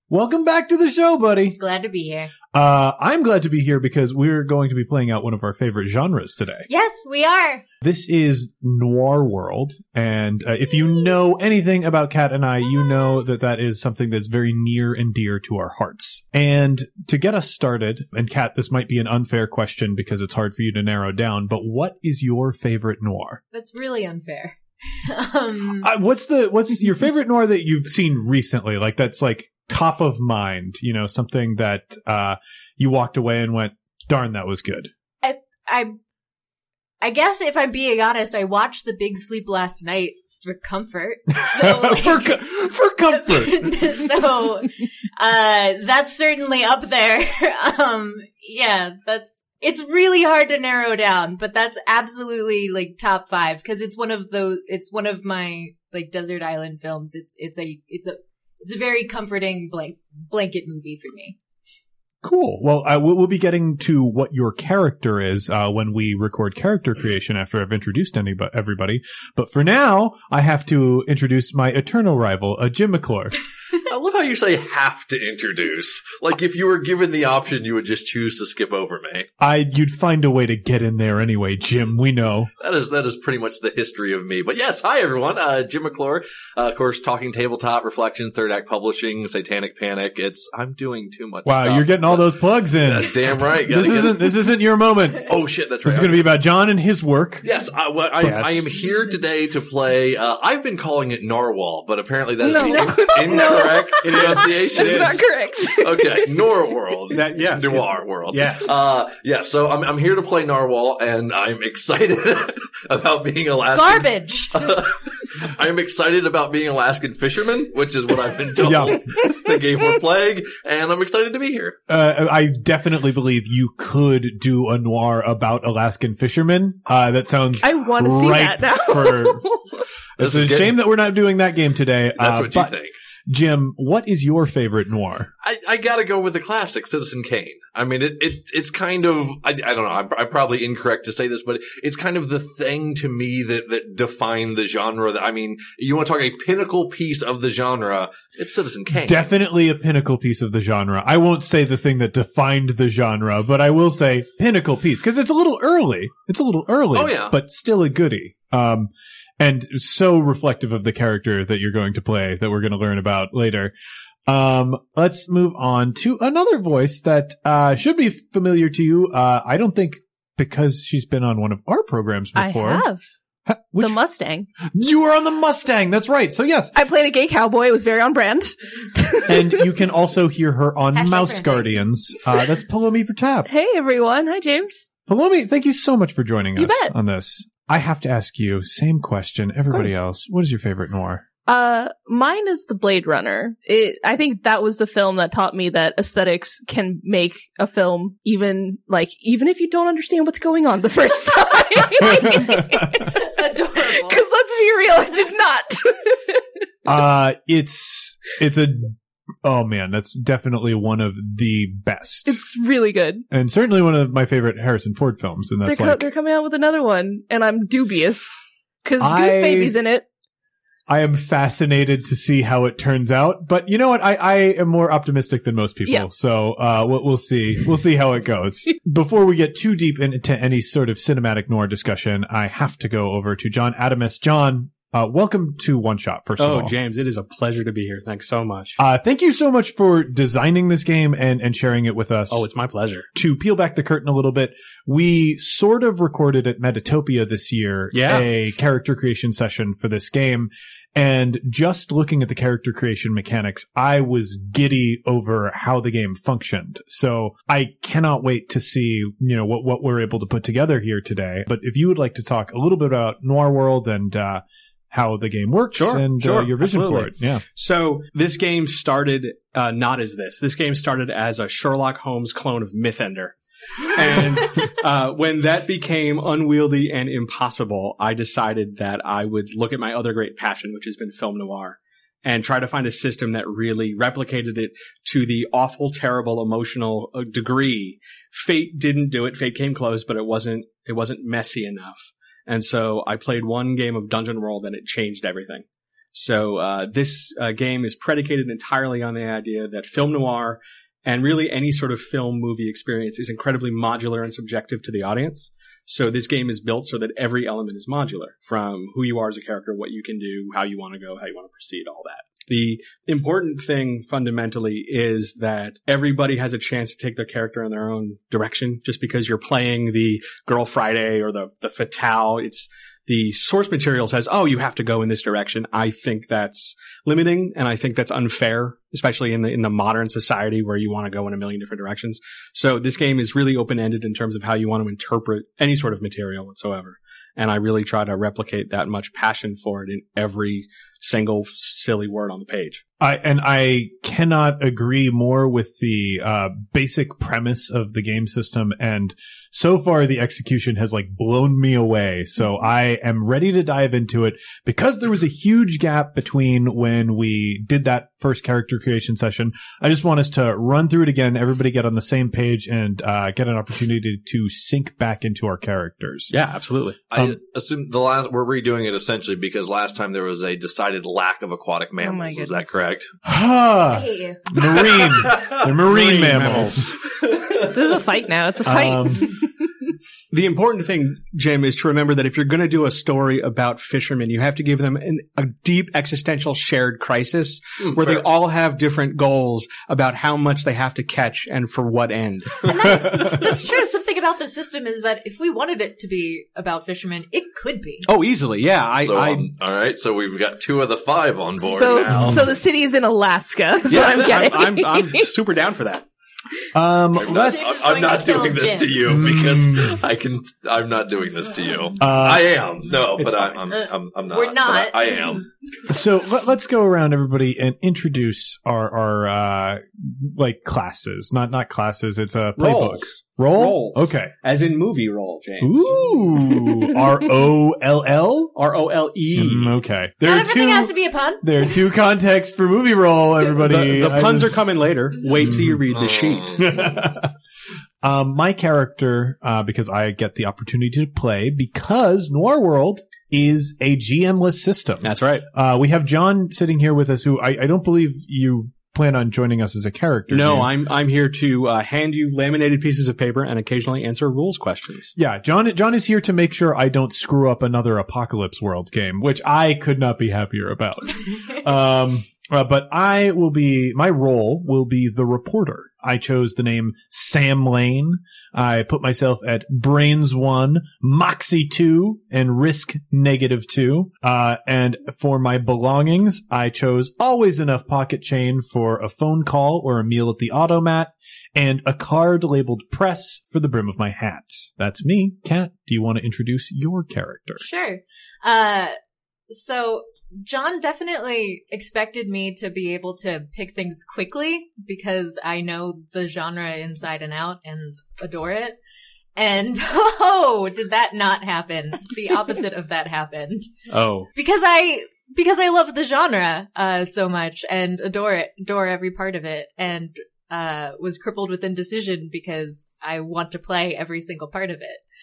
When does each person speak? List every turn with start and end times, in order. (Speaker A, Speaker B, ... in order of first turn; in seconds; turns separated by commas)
Speaker A: 0.1-1.6, Speaker B: 1.6-2.3, Speaker A: 2.5-6.7, Speaker B: 6.7-7.6, Speaker A: 7.8-23.4, Speaker B: 23.5-25.9, Speaker A: 25.8-34.9, Speaker B: 35.2-36.0, Speaker B: 37.0-42.6, Speaker A: 41.4-43.8, Speaker B: 43.1-61.4, Speaker A: 62.2-73.3, Speaker C: 73.8-79.3, Speaker A: 79.4-82.5, Speaker C: 82.6-94.4, Speaker A: 91.5-95.3, Speaker C: 95.2-96.2, Speaker A: 95.8-97.4, Speaker C: 97.4-105.2, Speaker A: 98.2-98.7, Speaker D: 102.4-106.3, Speaker E: 103.3-105.2, Speaker C: 105.8-121.8, Speaker E: 107.1-108.8, Speaker B: 113.7-114.9, Speaker A: 118.6-119.2, Speaker A: 121.9-129.4, Speaker D: 127.6-129.8, Speaker A: 130.2-132.7, Speaker C: 130.2-130.8, Speaker C: 132.2-132.9, Speaker A: 133.3-135.3, Speaker C: 135.4-149.3, Speaker A: 148.9-163.7, Speaker C: 156.9-157.4, Speaker A: 164.3-172.9, Speaker D: 172.4-173.1, Speaker A: 173.5-174.0, Speaker D: 173.8-174.5, Speaker A: 174.6-176.7, Speaker D: 176.7-179.8, Speaker A: 179.3-183.5, Speaker B: 180.9-181.8, Speaker D: 183.4-184.9, Speaker A: 185.1-191.3, Speaker D: 186.6-186.9, Speaker D: 189.7-190.0, Speaker D: 191.4-203.2, Speaker A: 202.0-202.8, Speaker B: 202.9-204.2, Speaker D: 203.8-206.4, Speaker A: 206.9-212.4, Speaker D: 212.3-213.3, Speaker A: 213.3-216.1, Speaker D: 215.7-220.1, Speaker A: 219.0-219.8, Speaker A: 220.9-236.8, Speaker E: 236.4-238.8, Speaker A: 238.8-242.5, Speaker E: 242.3-243.1, Speaker A: 243.1-267.4, Speaker E: 247.9-248.3, Speaker E: 265.7-342.8, Speaker A: 343.0-366.3, Speaker E: 366.3-367.0, Speaker C: 367.1-373.1, Speaker D: 372.0-372.8, Speaker A: 373.2-376.9, Speaker B: 373.9-374.4, Speaker C: 374.7-375.6, Speaker E: 375.8-377.0, Speaker D: 377.6-379.7, Speaker A: 378.6-379.4, Speaker E: 380.3-393.5, Speaker C: 387.9-388.2, Speaker B: 392.6-398.1, Speaker E: 398.1-399.5, Speaker C: 399.0-402.6, Speaker D: 401.6-405.3, Speaker A: 402.1-402.4, Speaker E: 403.9-406.1, Speaker C: 403.9-404.2, Speaker A: 406.7-407.9, Speaker C: 407.2-415.4, Speaker B: 407.2-409.0, Speaker A: 409.1-410.0, Speaker A: 412.0-412.5, Speaker E: 413.2-413.6, Speaker B: 414.3-415.4, Speaker A: 415.9-424.3, Speaker E: 422.6-426.6, Speaker A: 425.6-428.6, Speaker E: 428.6-429.8, Speaker A: 429.4-434.7, Speaker B: 430.2-431.7, Speaker E: 433.5-436.7, Speaker A: 435.4-435.8, Speaker C: 435.9-436.6, Speaker A: 436.6-437.3, Speaker A: 438.0-450.7, Speaker E: 445.0-445.5, Speaker E: 450.3-455.1, Speaker A: 455.1-487.6, Speaker B: 487.6-488.9, Speaker B: 489.5-498.8, Speaker B: 499.4-503.7, Speaker E: 503.9-504.3, Speaker B: 504.3-515.0